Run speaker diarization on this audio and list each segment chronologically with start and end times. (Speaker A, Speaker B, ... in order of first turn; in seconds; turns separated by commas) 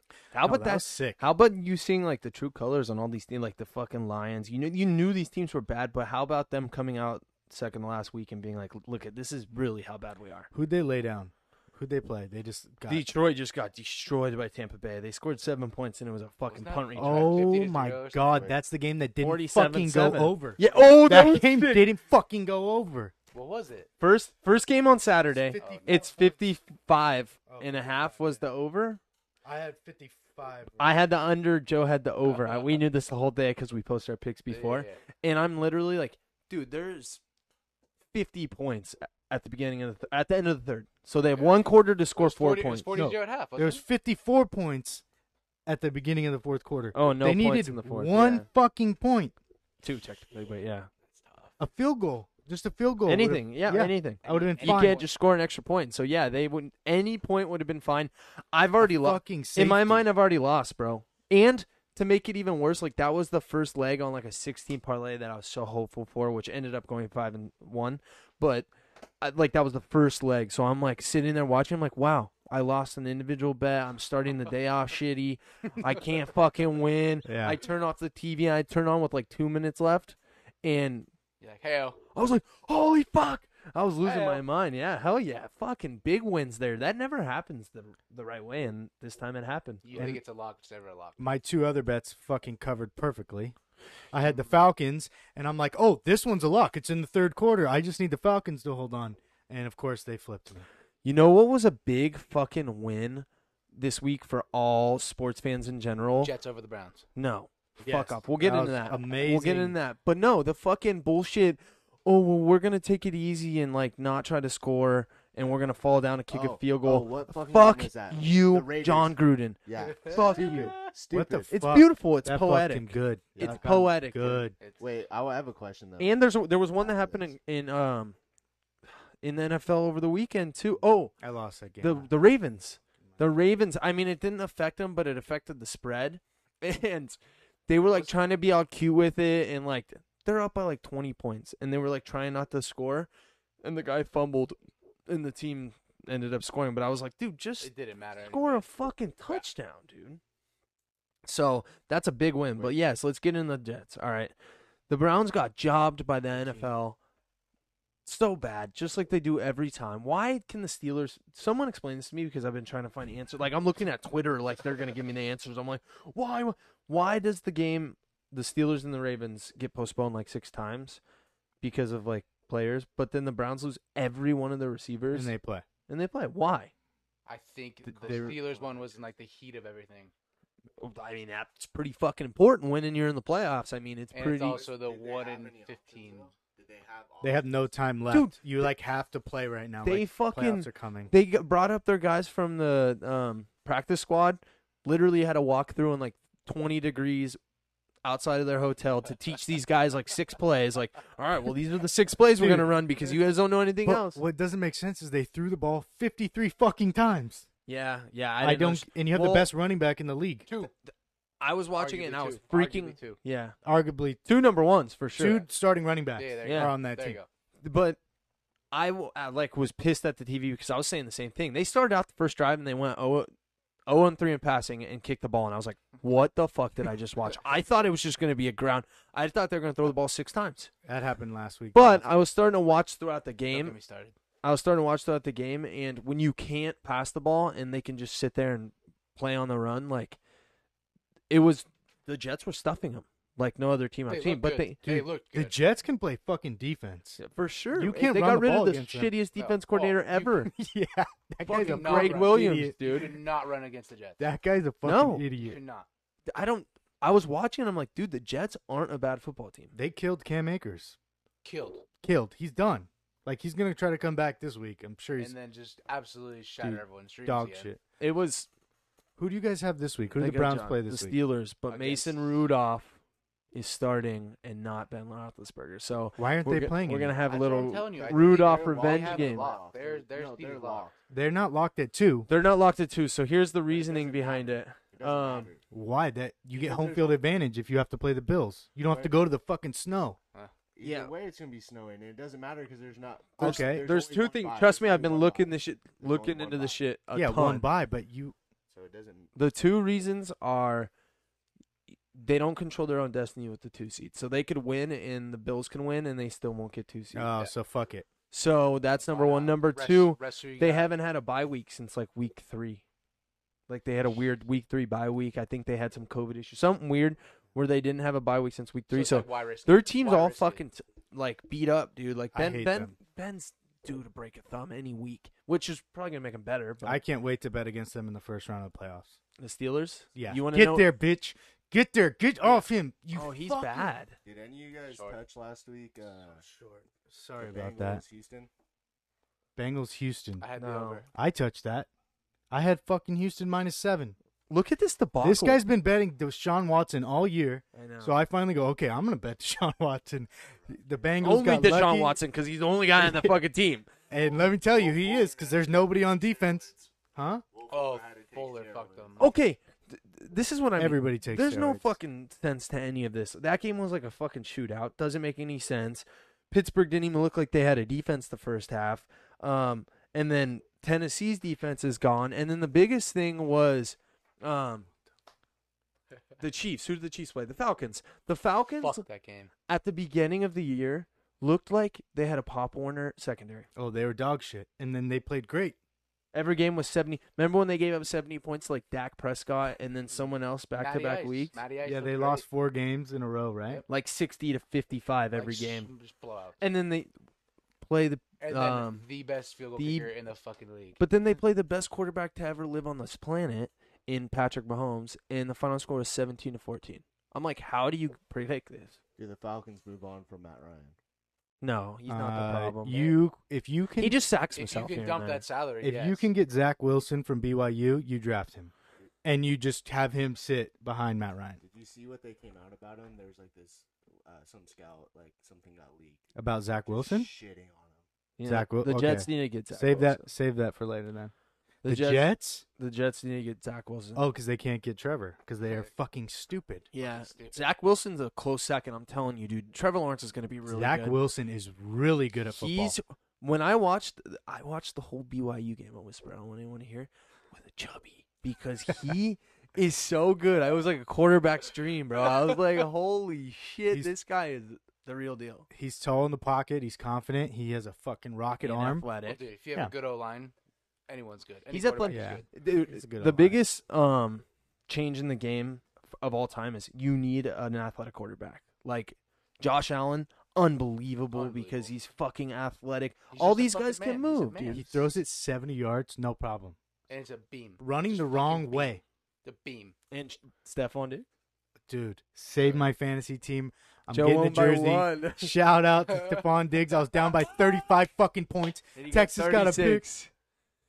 Speaker A: 0.3-10.5, Speaker B: 0.4-1.2, Speaker B: 10.5-13.1, Speaker A: 12.9-17.5, Speaker C: 16.5-18.4, Speaker B: 17.0-23.1, Speaker D: 18.2-18.6, Speaker A: 19.2-21.9, Speaker C: 23.3-23.9, Speaker A: 24.0-29.0, Speaker B: 25.5-26.4, Speaker C: 25.5-26.0, Speaker B: 27.5-28.4, Speaker B: 29.4-31.0, Speaker A: 30.8-37.2, Speaker C: 32.2-32.8, Speaker C: 34.5-35.0, Speaker A: 38.1-42.9, Speaker C: 41.4-43.8, Speaker B: 42.9-45.0, Speaker B: 45.7-49.4, Speaker A: 46.9-48.5, Speaker A: 49.8-50.9, Speaker C: 51.1-51.5, Speaker B: 51.6-55.0, Speaker A: 53.1-68.7, Speaker C: 54.2-55.1, Speaker B: 58.8-60.1, Speaker A: 69.2-81.1, Speaker B: 77.3-77.6, Speaker C: 81.4-82.0, Speaker A: 82.1-90.1, Speaker C: 84.0-84.4, Speaker C: 89.8-91.2, Speaker B: 89.9-90.2, Speaker B: 91.2-93.6, Speaker B: 94.1-100.7, Speaker A: 101.0-106.3, Speaker C: 106.2-107.0, Speaker A: 107.2-120.8, Speaker B: 107.8-109.8, Speaker D: 116.3-121.5, Speaker C: 119.8-120.7, Speaker B: 120.4-124.6, Speaker A: 121.5-124.5, Speaker D: 123.4-123.7, Speaker D: 124.8-126.2, Speaker A: 126.0-128.2, Speaker D: 126.8-127.3, Speaker A: 129.2-131.2, Speaker B: 131.2-132.1, Speaker A: 131.8-143.1, Speaker C: 137.8-138.2, Speaker A: 143.6-144.6, Speaker A: 145.1-150.2, Speaker C: 147.6-148.7, Speaker A: 151.2-154.3, Speaker A: 154.9-157.0, Speaker A: 158.1-171.0, Speaker A: 171.6-175.3, Speaker B: 175.1-175.7, Speaker A: 175.9-176.7, Speaker C: 177.3-180.1, Speaker B: 178.0-178.4, Speaker D: 178.0-179.1, Speaker A: 180.8-184.7, Speaker C: 184.1-186.3, Speaker D: 184.5-187.7, Speaker B: 187.2-191.1, Speaker A: 188.1-188.4, Speaker A: 189.8-197.4, Speaker A: 198.0-204.2, Speaker B: 202.4-202.8, Speaker B: 203.8-207.5, Speaker A: 207.7-209.5, Speaker B: 208.4-210.5, Speaker A: 211.4-213.6, Speaker C: 211.8-213.2, Speaker B: 213.6-214.2, Speaker A: 214.3-215.4, Speaker B: 215.2-217.2, Speaker C: 216.2-217.3, Speaker A: 216.4-216.8, Speaker A: 217.6-218.0, Speaker A: 218.7-223.3, Speaker A: 223.9-230.7, Speaker B: 230.8-232.1, Speaker A: 231.7-233.8, Speaker C: 233.5-234.1, Speaker A: 234.4-240.2, Speaker A: 241.3-245.0, Speaker C: 244.1-245.6, Speaker B: 244.9-247.2, Speaker A: 247.2-250.5, Speaker B: 247.7-249.1, Speaker C: 249.4-250.5, Speaker B: 250.5-252.8, Speaker A: 251.4-253.2, Speaker C: 251.5-254.2, Speaker B: 254.2-255.6, Speaker A: 254.8-255.3, Speaker C: 255.4-255.9, Speaker A: 256.3-259.7, Speaker B: 259.8-261.0, Speaker C: 261.4-261.9, Speaker B: 262.0-265.3, Speaker C: 265.2-267.7, Speaker B: 266.6-267.8, Speaker A: 268.0-268.5, Speaker B: 269.2-271.2, Speaker A: 270.2-273.0, Speaker C: 271.7-272.3, Speaker A: 273.5-279.5, Speaker B: 276.2-277.2, Speaker C: 277.3-280.9, Speaker D: 277.9-280.9, Speaker B: 281.1-282.3, Speaker A: 282.3-285.5, Speaker D: 283.7-285.6, Speaker B: 285.7-290.2, Speaker D: 286.6-287.0, Speaker D: 288.9-289.1, Speaker D: 290.8-296.8, Speaker A: 290.8-291.1, Speaker A: 293.4-297.7, Speaker B: 293.4-293.9, Speaker B: 297.1-298.4, Speaker D: 298.7-299.4, Speaker A: 299.4-300.9, Speaker A: 302.1-307.4, Speaker B: 307.1-308.1, Speaker A: 308.3-312.8, Speaker C: 309.1-310.9, Speaker A: 313.7-327.0, Speaker C: 318.9-320.6, Speaker B: 322.3-322.9, Speaker B: 326.8-329.2, Speaker A: 329.4-330.9, Speaker B: 330.1-333.9, Speaker A: 333.1-334.2, Speaker D: 334.2-336.4, Speaker C: 334.9-335.2, Speaker B: 336.4-338.0, Speaker D: 337.4-338.5, Speaker B: 339.6-340.5, Speaker C: 340.4-341.1, Speaker A: 340.6-341.0, Speaker B: 341.1-341.9, Speaker B: 342.5-344.1, Speaker A: 344.5-345.6, Speaker B: 345.2-352.2, Speaker A: 347.7-348.2, Speaker A: 351.2-353.9, Speaker B: 353.0-353.4, Speaker B: 354.1-357.4, Speaker D: 354.1-356.9, Speaker D: 357.5-359.4, Speaker C: 357.7-359.3, Speaker A: 359.2-374.9, Speaker B: 360.8-362.0, Speaker A: 376.4-379.0, Speaker C: 378.8-379.5, Speaker A: 379.7-383.7, Speaker B: 383.8-385.8, Speaker A: 386.3-391.6, Speaker C: 390.1-392.4, Speaker B: 391.8-393.8, Speaker A: 393.9-395.9, Speaker C: 395.4-396.6, Speaker A: 396.6-397.1, Speaker A: 397.8-399.1, Speaker C: 398.4-401.0, Speaker A: 399.8-400.1, Speaker A: 401.0-409.0, Speaker D: 409.2-411.0, Speaker A: 411.6-413.1, Speaker B: 412.1-414.2, Speaker A: 414.0-415.4, Speaker C: 414.6-416.3, Speaker B: 415.8-418.7, Speaker B: 419.2-421.6, Speaker D: 421.6-426.3, Speaker B: 426.4-427.3, Speaker D: 426.9-428.0, Speaker A: 428.4-430.2, Speaker B: 428.4-431.3, Speaker A: 431.8-434.2, Speaker B: 431.9-432.6, Speaker B: 434.1-436.9, Speaker A: 436.9-441.2, Speaker C: 437.0-437.6, Speaker B: 440.7-443.0, Speaker A: 442.5-455.7, Speaker C: 452.3-452.6, Speaker B: 455.7-459.1, Speaker A: 458.6-459.4, Speaker C: 459.2-460.5, Speaker C: 461.1-462.5, Speaker A: 461.7-474.9, Speaker B: 462.1-463.6, Speaker C: 471.3-471.9, Speaker C: 473.3-475.0, Speaker B: 474.7-476.8, Speaker C: 477.1-479.9, Speaker B: 477.8-479.0, Speaker A: 480.1-481.3, Speaker B: 481.9-490.1, Speaker A: 484.1-485.5, Speaker C: 486.1-486.5, Speaker A: 488.9-490.3